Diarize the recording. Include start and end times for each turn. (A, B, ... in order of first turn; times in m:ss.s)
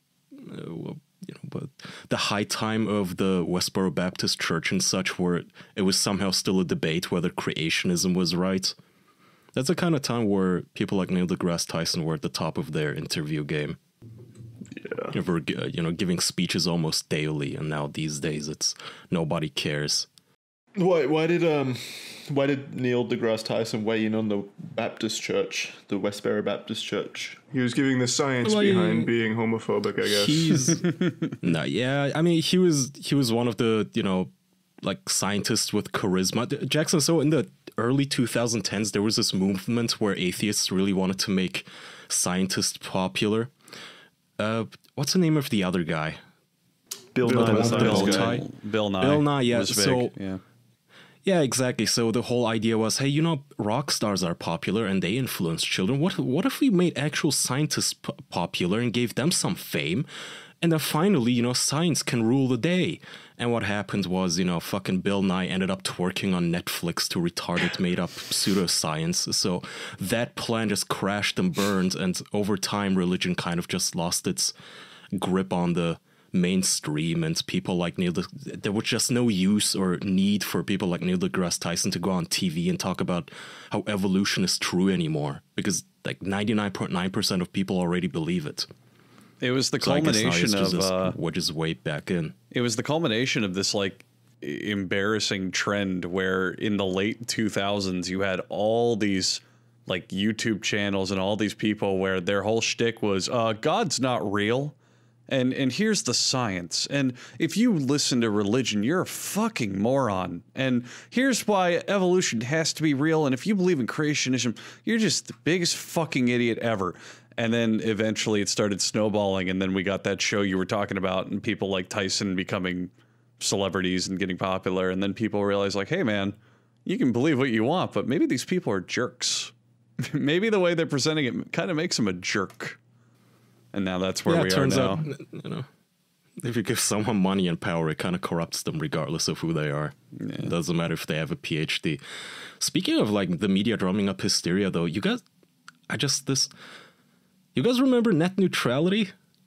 0:00.3-0:08.8 A
0:09.6-0:13.8 A
0:15.1-0:20.1 A
0:20.8-0:27.4 B
0:27.5-0:30.8 C
0:28.4-0:29.1 A
0:30.0-0:43.5 A
0:31.0-0:31.3 D
0:44.4-0:46.2 A
0:47.1-0:48.3 B
0:47.2-0:48.1 C
0:47.3-0:48.5 A
0:47.6-0:50.4 D
0:49.0-0:50.1 A
0:51.2-1:00.1 A
1:00.6-1:14.5 A
1:15.1-1:28.7 A
1:29.4-1:31.2 D
1:29.8-1:32.4 A
1:32.5-1:44.8 D
1:45.3-2:12.8 D
2:13.7-2:15.1 D
2:14.3-2:15.7 A
2:16.4-2:22.0 A
2:20.2-2:20.5 D
2:22.6-2:25.2 A
2:25.9-2:26.5 A
2:27.6-2:29.1 A